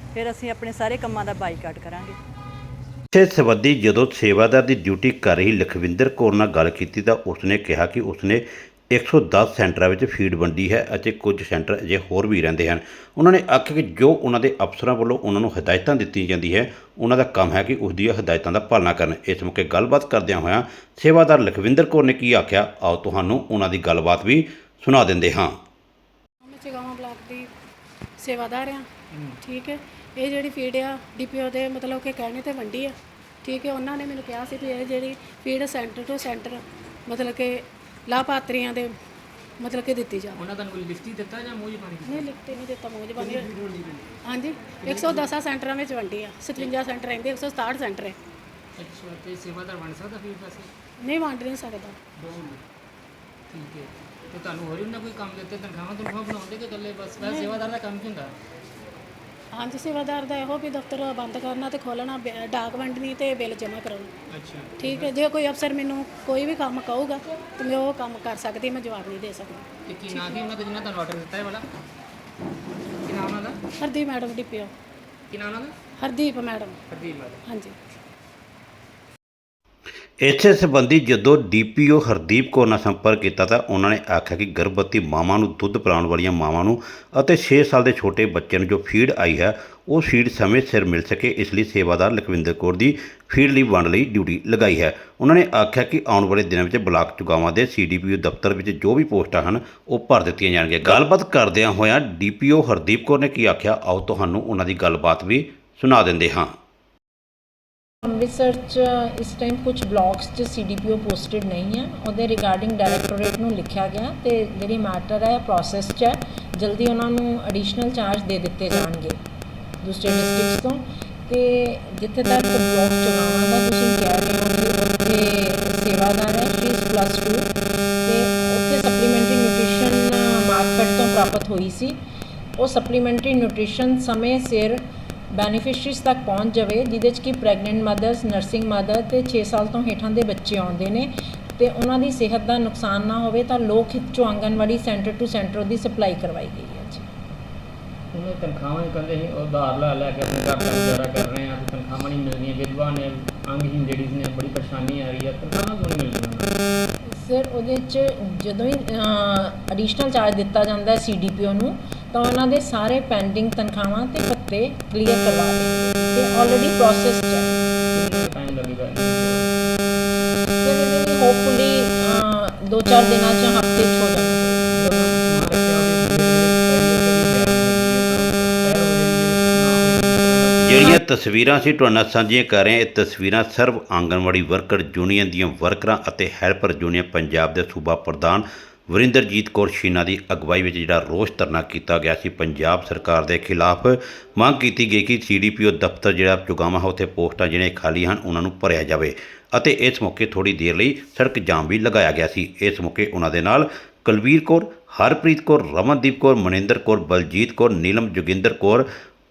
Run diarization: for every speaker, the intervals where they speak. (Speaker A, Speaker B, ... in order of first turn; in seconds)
Speaker A: 0.1-2.2
Speaker B: 3.1-25.6, 80.2-106.5, 180.6-208.9
Speaker C: 26.4-27.5, 28.2-28.9, 29.4-38.9, 39.6-40.4, 42.1-43.6, 44.2-48.2, 51.0-52.0, 57.2-57.6, 59.5-64.1, 64.8-70.4, 73.8-74.7, 76.0-76.8, 77.5-77.8
Speaker D: 40.4-42.2, 44.8-45.1, 48.8-50.7, 53.5-58.3, 64.3-65.1, 69.8-71.6, 73.0-73.6, 75.3-75.8, 76.9-77.4, 148.1-156.5, 167.9-169.5, 174.8-180.9
Speaker E: 108.0-119.2, 119.8-127.5, 128.1-132.0, 132.6-147.0, 157.1-167.6, 170.6-174.7